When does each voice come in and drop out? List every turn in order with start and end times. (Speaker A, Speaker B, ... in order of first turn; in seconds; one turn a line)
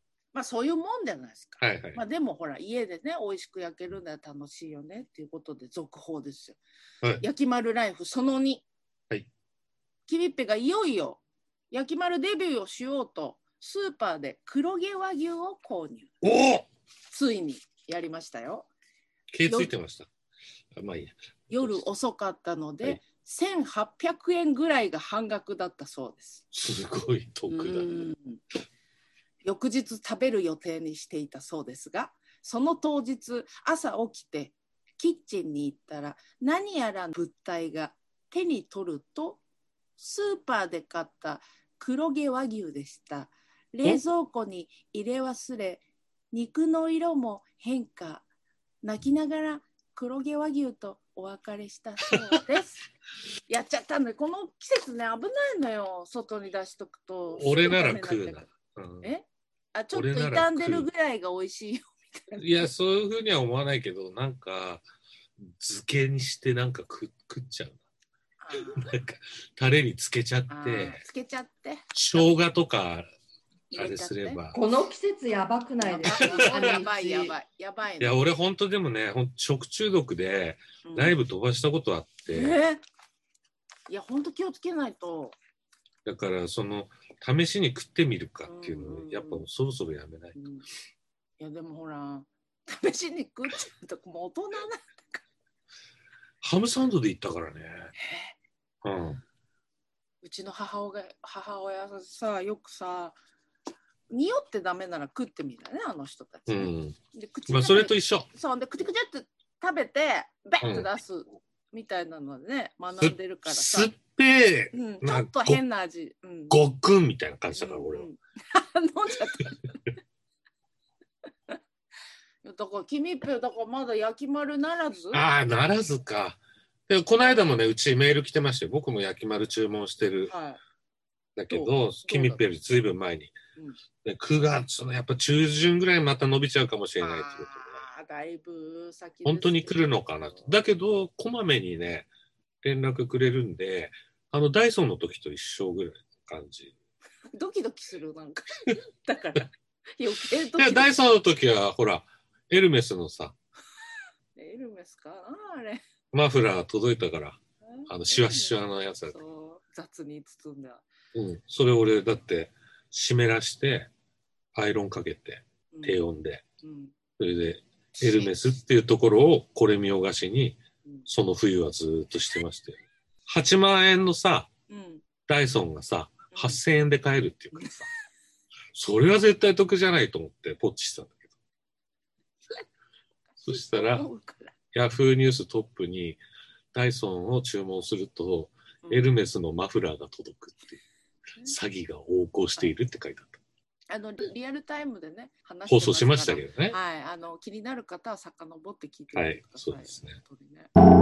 Speaker A: 0.3-6.6
Speaker B: 1.6-2.0
Speaker A: 7.2-8.7
Speaker A: 10.1-16.1
Speaker B: 16.2-16.7
Speaker A: 17.1-18.7
Speaker B: 19.3-20.1
Speaker A: 19.4-19.7
Speaker B: 20.7-21.8
Speaker A: 21.5-26.4
Speaker B: 26.5-28.0
Speaker A: 27.5-28.4
Speaker A: 29.4-39.4
Speaker A: 40.0-48.2
Speaker A: 48.8-52.8
Speaker B: 52.1-52.4
Speaker A: 53.5-58.5
Speaker B: 57.3-59.1
Speaker A: 59.0-62.7
Speaker B: 59.9-60.9
Speaker B: 62.4-64.8
Speaker B: 65.4-67.8
Speaker A: 68.4-69.0
Speaker B: 68.6-71.0
Speaker A: 70.5-72.4
Speaker B: 71.9-73.1
Speaker A: 73.7-74.4
Speaker B: 73.7-74.6
Speaker C: 74.5-77.3
Speaker A: 75.8-78.2
Speaker B: 76.1-76.7
Speaker B: 78.0-82.6
Speaker A: 80.8-81.2
Speaker A: 82.3-82.8
Speaker A: 83.9-85.3
Speaker B: 86.0-90.4
Speaker A: 88.4-89.5
Speaker A: 90.3-90.6
Speaker A: 91.4-95.2
Speaker B: 96.4-97.9
Speaker A: 98.0-98.3
Speaker B: 98.8-99.2
Speaker A: 100.2-103.2
Speaker A: 104.1-113.9
Speaker B: 106.5-107.0
Speaker B: 107.5-108.3
Speaker B: 110.6-110.9
Speaker B: 113.0-115.6
Speaker A: 114.7-116.6
Speaker B: 116.5-118.1
Speaker A: 117.5-119.8
Speaker A: 122.4-125.2
Speaker B: 125.1-130.3
Speaker A: 127.2-127.4
Speaker A: 130.3-130.6
Speaker B: 131.3-133.3
Speaker A: 131.5-132.4
Speaker B: 134.0-137.8
Speaker A: 137.0-140.5
Speaker B: 139.2-142.1
Speaker B: 142.6-146.7
Speaker A: 147.3-150.9
Speaker B: 150.5-153.3
Speaker A: 154.3-155.8
Speaker B: 156.1-159.2
Speaker A: 157.7-158.6
Speaker A: 159.1-160.8
Speaker B: 161.1-163.9
Speaker B: 164.5-166.4
Speaker A: 165.7-166.0
Speaker A: 166.6-166.9
Speaker B: 167.2-174.5
Speaker A: 168.0-168.3
Speaker A: 174.7-175.0
Speaker B: 175.3-177.7
Speaker A: 176.3-176.6
Speaker A: 177.5-177.9
Speaker B: 178.7-181.3
Speaker B: 183.4-184.1
Speaker A: 183.4-184.5
Speaker B: 184.7-186.2
Speaker B: 186.7-190.8
Speaker A: 188.8-189.1
Speaker B: 191.4-193.4
Speaker A: 193.9-200.7
Speaker B: 195.7-196.8
Speaker B: 199.1-200.2